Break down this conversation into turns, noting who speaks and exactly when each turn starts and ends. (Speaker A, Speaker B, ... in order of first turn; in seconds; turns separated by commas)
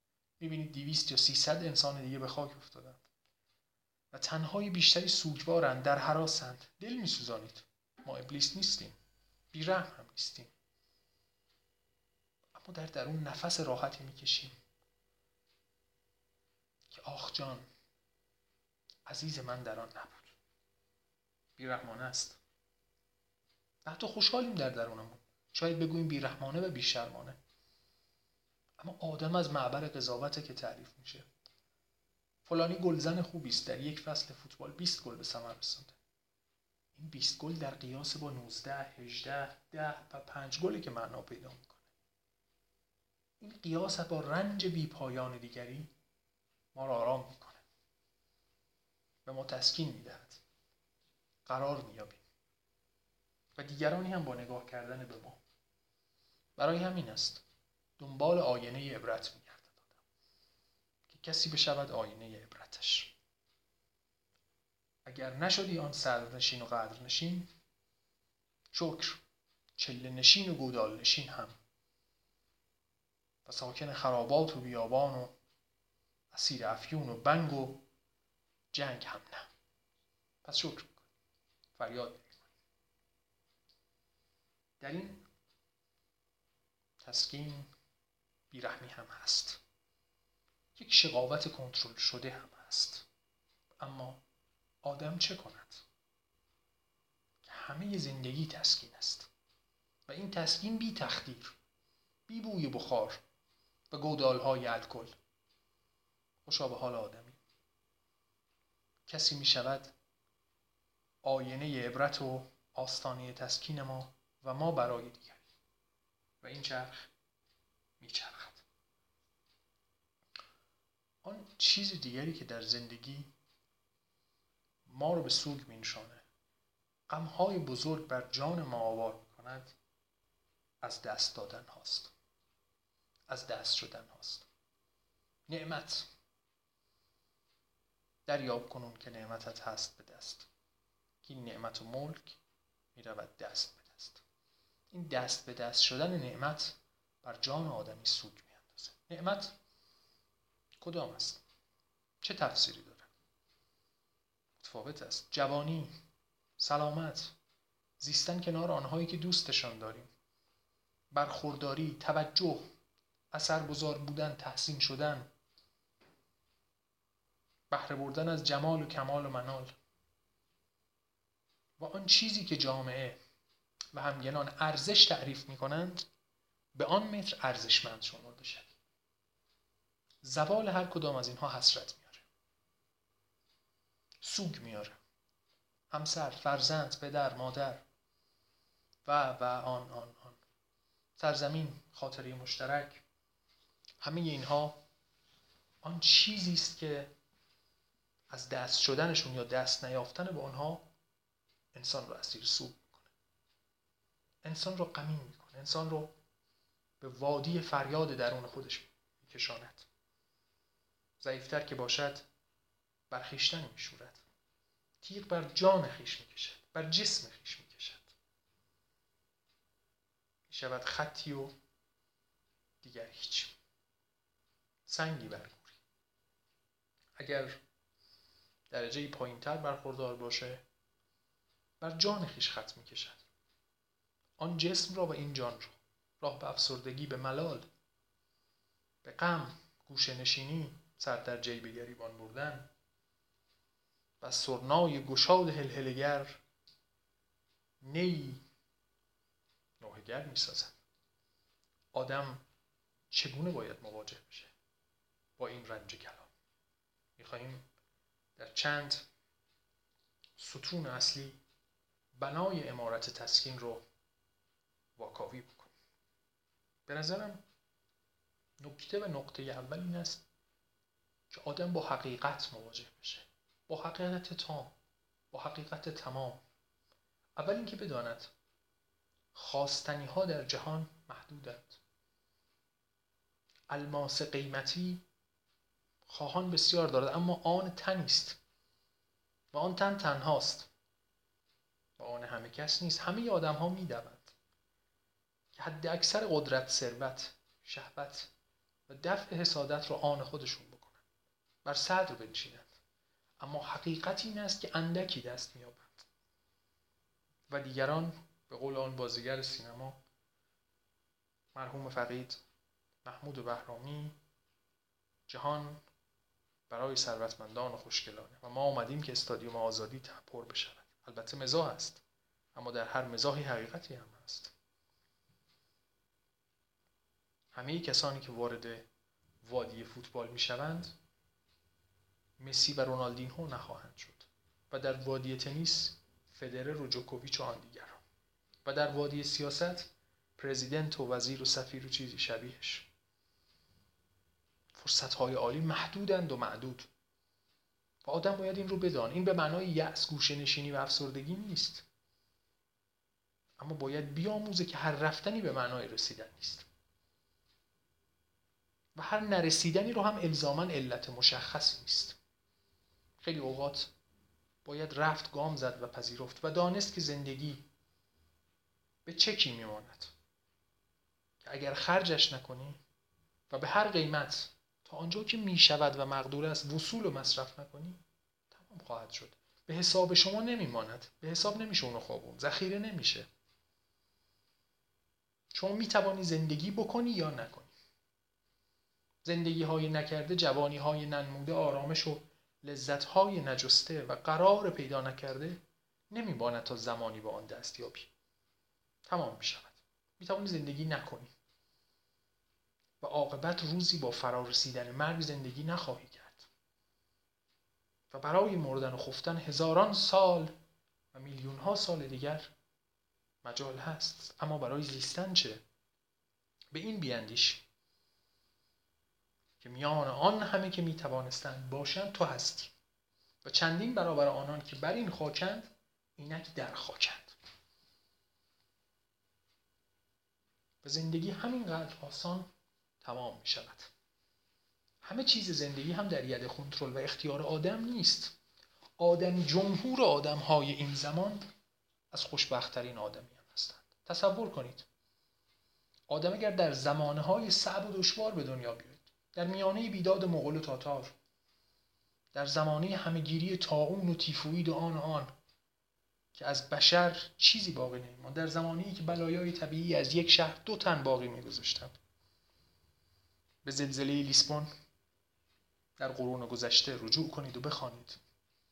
Speaker A: 0.4-3.0, Speaker A: 4.1-8.9, Speaker A: 9.5-10.5, Speaker A: 12.5-14.5, Speaker A: 16.9-17.6, Speaker A: 19.1-20.4, Speaker A: 21.6-22.4, Speaker A: 23.8-27.4, Speaker A: 28.8-31.3, Speaker A: 32.4-36.0, Speaker A: 36.9-41.9, Speaker A: 43.4-45.9, Speaker A: 46.7-47.6, Speaker A: 49.2-50.4, Speaker A: 51.5-52.2, Speaker A: 53.5-55.4, Speaker A: 56.6-57.4, Speaker A: 58.0-60.0, Speaker A: 61.1-63.2, Speaker A: 65.0-67.5, Speaker A: 68.7-69.2, Speaker A: 69.8-71.5, Speaker A: 73.4-75.3, Speaker A: 76.3-77.8, Speaker A: 78.7-79.5, Speaker A: 80.4-81.0, Speaker A: 81.7-82.5, Speaker A: 84.8-85.2, Speaker A: 87.0-87.7, Speaker A: 88.5-89.6, Speaker A: 90.7-93.1, Speaker A: 93.8-94.2, Speaker A: 94.8-95.8, Speaker A: 97.4-99.3, Speaker A: 100.1-101.5, Speaker A: 102.3-103.2, Speaker A: 103.9-105.2, Speaker A: 106.4-107.4, Speaker A: 109.0-109.9, Speaker A: 111.2-115.5, Speaker A: 116.4-117.1, Speaker A: 118.0-118.6, Speaker A: 121.2-123.3, Speaker A: 124.9-126.2, Speaker A: 127.1-129.8, Speaker A: 130.8-132.1, Speaker A: 133.3-134.5, Speaker A: 135.5-136.1, Speaker A: 138.2-140.5, Speaker A: 141.2-142.4, Speaker A: 142.9-144.2, Speaker A: 144.9-149.6, Speaker A: 150.8-151.4, Speaker A: 152.2-153.1, Speaker A: 154.6-155.9, Speaker A: 156.6-157.3, Speaker A: 158.0-160.1, Speaker A: 161.1-162.7, Speaker A: 163.3-165.3, Speaker A: 167.7-169.7, Speaker A: 171.8-173.2, Speaker A: 173.9-176.1, Speaker A: 176.7-178.8, Speaker A: 180.2-182.3, Speaker A: 184.2-185.0, Speaker A: 185.9-187.8, Speaker A: 189.0-190.4, Speaker A: 191.2-193.0, Speaker A: 194.0-194.8, Speaker A: 195.8-197.1, Speaker A: 198.3-200.9, Speaker A: 201.7-203.1, Speaker A: 204.4-206.1, Speaker A: 207.0-209.9, Speaker A: 211.2-212.3, Speaker A: 213.1-214.2, Speaker A: 215.0-218.1, Speaker A: 220.5-221.5, Speaker A: 222.8-223.6, Speaker A: 224.9-225.8, Speaker A: 227.2-227.6, Speaker A: 228.7-230.6, Speaker A: 231.8-233.2, Speaker A: 234.4-237.7, Speaker A: 239.0-242.7, Speaker A: 244.2-246.4, Speaker A: 247.8-248.4, Speaker A: 249.8-250.8, Speaker A: 251.9-252.4, Speaker A: 253.1-254.5, Speaker A: 255.4-256.3, Speaker A: 257.2-257.7, Speaker A: 258.4-259.1, Speaker A: 260.4-261.4, Speaker A: 262.1-263.8, Speaker A: 265.0-265.7, Speaker A: 266.9-267.4, Speaker A: 268.6-270.2, Speaker A: 271.3-274.7, Speaker A: 275.3-276.4, Speaker A: 277.4-278.3, Speaker A: 279.3-281.8, Speaker A: 283.7-285.0, Speaker A: 286.1-288.4, Speaker A: 289.5-290.7, Speaker A: 292.0-294.3, Speaker A: 295.5-298.3, Speaker A: 298.9-301.0, Speaker A: 301.6-302.7, Speaker A: 303.4-306.1, Speaker A: 307.5-310.0, Speaker A: 311.5-312.4, Speaker A: 313.0-314.2, Speaker A: 315.3-315.8, Speaker A: 316.7-322.0, Speaker A: 322.5-324.5, Speaker A: 327.5-328.9, Speaker A: 329.4-330.9, Speaker A: 332.4-338.0, Speaker A: 338.6-342.9, Speaker A: 344.7-346.9, Speaker A: 348.0-351.9, Speaker A: 353.6-356.7, Speaker A: 358.9-362.2, Speaker A: 363.2-363.9, Speaker A: 364.6-367.7, Speaker A: 369.0-370.1, Speaker A: 371.4-372.8, Speaker A: 373.5-383.3, Speaker A: 385.5-387.7, Speaker A: 389.2-398.1, Speaker A: 399.1-401.3, Speaker A: 403.0-406.5, Speaker A: 408.1-410.5, Speaker A: 411.1-412.5, Speaker A: 413.4-415.6, Speaker A: 416.7-417.6, Speaker A: 419.6-422.7, Speaker A: 423.4-427.4, Speaker A: 430.8-432.5, Speaker A: 433.0-433.9, Speaker A: 435.0-438.3, Speaker A: 439.0-441.5, Speaker A: 442.1-444.9, Speaker A: 446.1-451.1, Speaker A: 452.3-455.3, Speaker A: 456.3-461.9, Speaker A: 463.6-464.7, Speaker A: 466.0-468.2